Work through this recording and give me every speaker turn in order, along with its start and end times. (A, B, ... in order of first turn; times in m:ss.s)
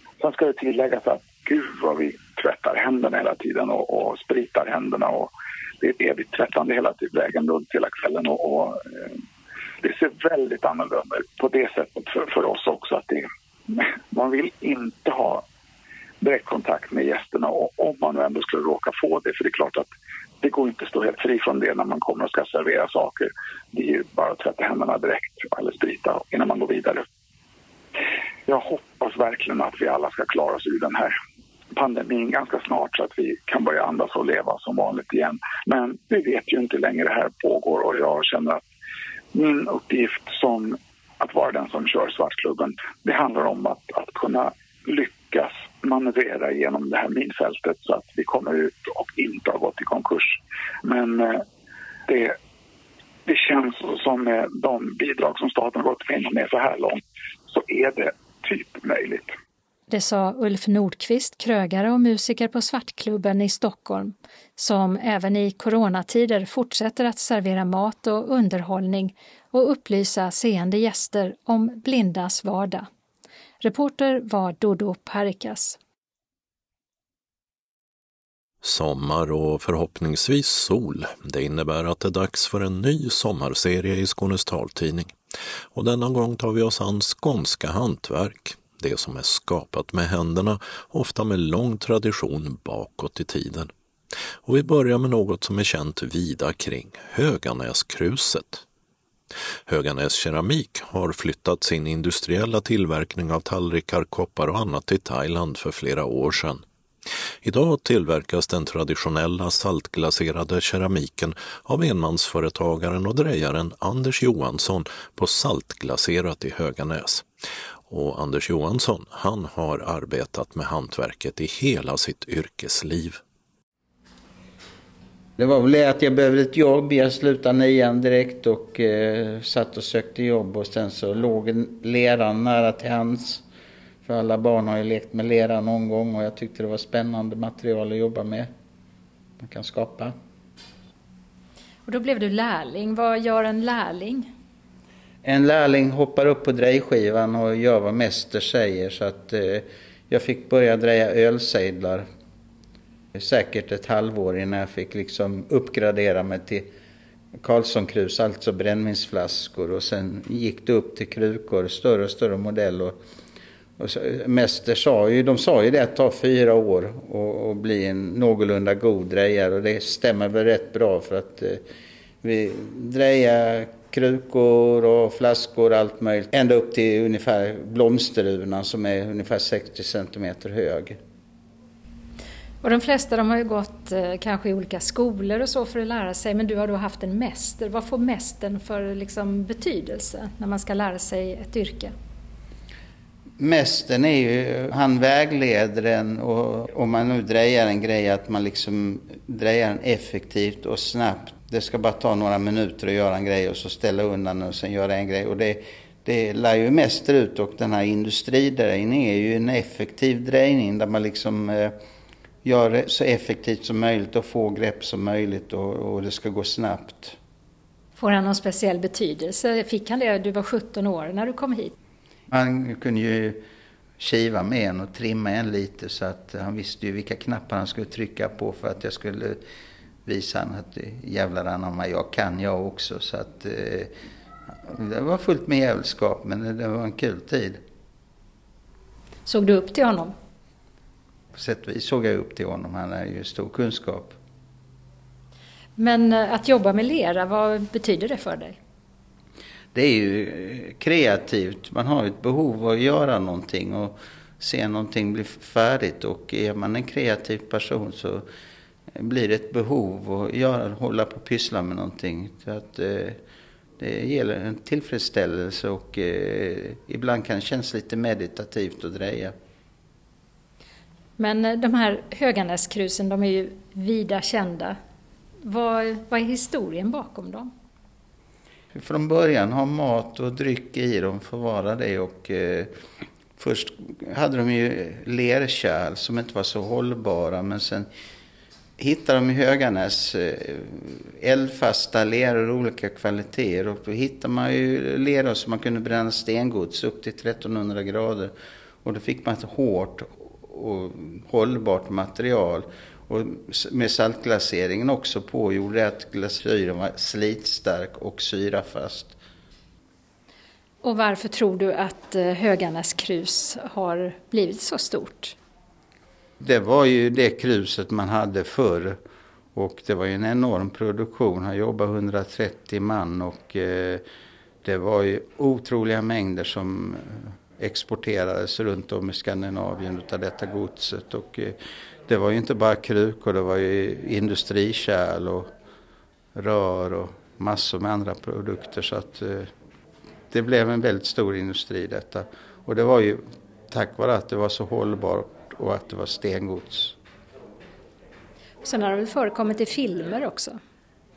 0:00.2-0:05.3 A
0:05.8-0:09.0 A
0:09.8-0:15.4 A
0:16.2-0:19.9 A
0:20.4-0:27.0 A
0:28.5-0:31.1 A
0:31.8-0:38.6 A
0:39.3-0:51.4 A
0:52.1-0:52.4 A
0:53.3-0:59.3 A
0:59.9-1:12.9 B
1:13.6-1:15.8 B
1:18.6-1:25.2 C
1:25.7-1:33.7 C
1:34.4-1:38.6 C
1:39.7-1:46.6 C
1:47.4-1:57.3 C
1:57.9-2:03.2 C
2:05.4-2:13.4 D
2:14.0-2:18.5 D
2:19.4-2:20.1 D
2:21.9-2:24.3 B
2:25.2-2:32.1 D
2:33.2-2:36.7 D
2:37.4-2:43.0 D
2:43.8-2:51.6 D
2:52.2-3:01.0 D
3:02.6-3:11.9 B
3:13.4-3:31.8 D
3:32.4-3:37.2 D
3:38.0-3:41.7 B
3:42.3-3:43.4 D
3:44.0-3:49.4 D
3:50.1-3:53.9 D
3:54.6-3:57.6 D
3:59.3-4:00.1 B
4:01.3-4:04.2 D
4:05.8-4:08.6 B
4:09.7-4:18.3 D
4:19.0-4:23.2 D
4:23.8-4:29.4 D
4:31.2-4:34.8 B
4:35.4-4:37.5 B
4:38.7-4:42.7 D
4:43.4-4:47.9 D
4:48.8-4:58.3 D
4:58.8-5:09.2 D
5:10.8-5:15.4 B
5:16.4-5:19.0 D
5:19.6-5:24.0 D
5:24.6-5:35.5 D
5:36.4-5:39.5 D
5:40.3-5:47.0 D
5:48.6-5:50.6 B